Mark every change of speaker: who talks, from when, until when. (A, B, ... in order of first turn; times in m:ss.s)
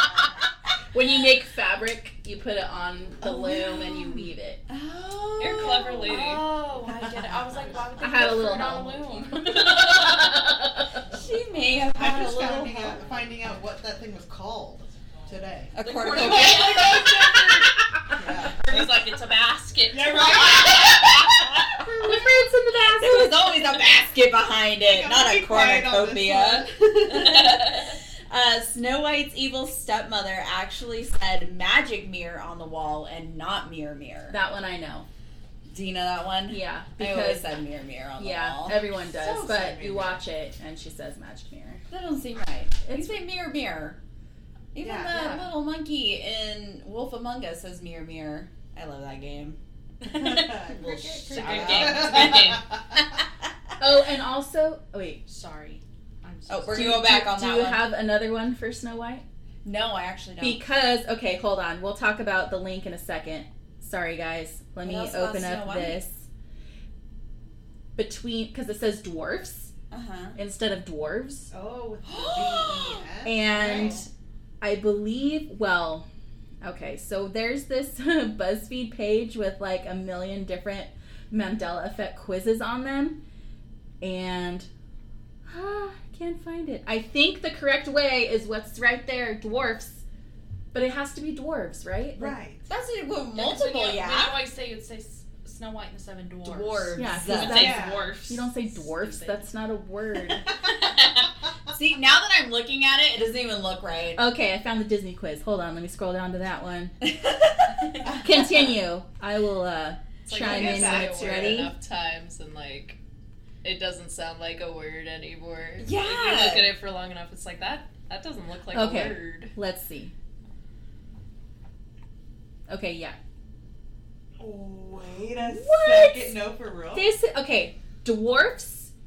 0:00.9-0:04.6 A
0:03.2-0:06.4 B
0:05.4-0:06.5 C
0:06.0-0:09.9 D
0:06.8-0:08.4 E
0:08.0-0:11.0 A
0:11.1-0:13.1 B
0:11.9-0:19.0 E
0:15.8-0:17.7 B
0:15.8-0:17.4 D
0:15.9-0:16.8 C
0:18.6-0:21.2 C
0:18.7-0:20.2 D
0:19.9-0:22.6 E
0:20.6-0:21.6 B
0:22.0-0:23.5 A
0:22.9-0:34.4 B
0:24.8-0:27.6 E
0:27.4-0:27.8 C
0:34.3-0:35.1 A
0:35.7-0:38.8 B
0:36.5-0:37.5 A
0:38.2-0:41.8 A
0:39.0-0:40.2 E
0:41.9-0:44.0 B
0:42.9-0:43.2 A
0:44.7-0:53.3 B
0:44.8-0:45.4 E
0:50.0-0:52.8 E
0:51.3-0:52.3 D
0:51.4-0:52.4 C
0:53.8-0:55.2 A
0:55.3-0:57.1 D
0:56.5-0:57.9 B
0:56.7-0:59.2 A
0:59.6-1:00.6 B
1:00.4-1:06.2 A
1:04.8-1:06.0 B
1:08.0-1:09.7 A
1:09.9-1:10.4 B
1:10.4-1:11.5 A
1:11.5-1:14.0 E
1:12.0-1:14.0 B
1:13.2-1:14.1 A
1:14.6-1:16.1 A
1:16.6-1:23.2 A
1:24.0-1:24.7 A
1:25.5-1:30.0 A
1:30.7-1:32.4 A
1:32.2-1:32.7 E
1:32.7-1:34.4 B
1:33.3-1:39.5 D
1:36.4-1:37.8 B
1:37.0-1:40.5 A
1:37.5-1:38.1 E
1:40.8-1:44.2 B
1:44.2-1:47.0 A
1:47.0-1:48.0 B
1:48.0-1:48.3 E
1:48.2-1:51.7 A
1:50.3-1:53.0 C
1:50.3-1:51.7 E
1:53.6-1:59.5 C
1:55.8-1:56.7 B
1:58.7-2:00.1 A
2:02.7-2:03.2 A
2:04.4-2:07.1 E
2:05.4-2:06.4 A
2:06.9-2:08.9 A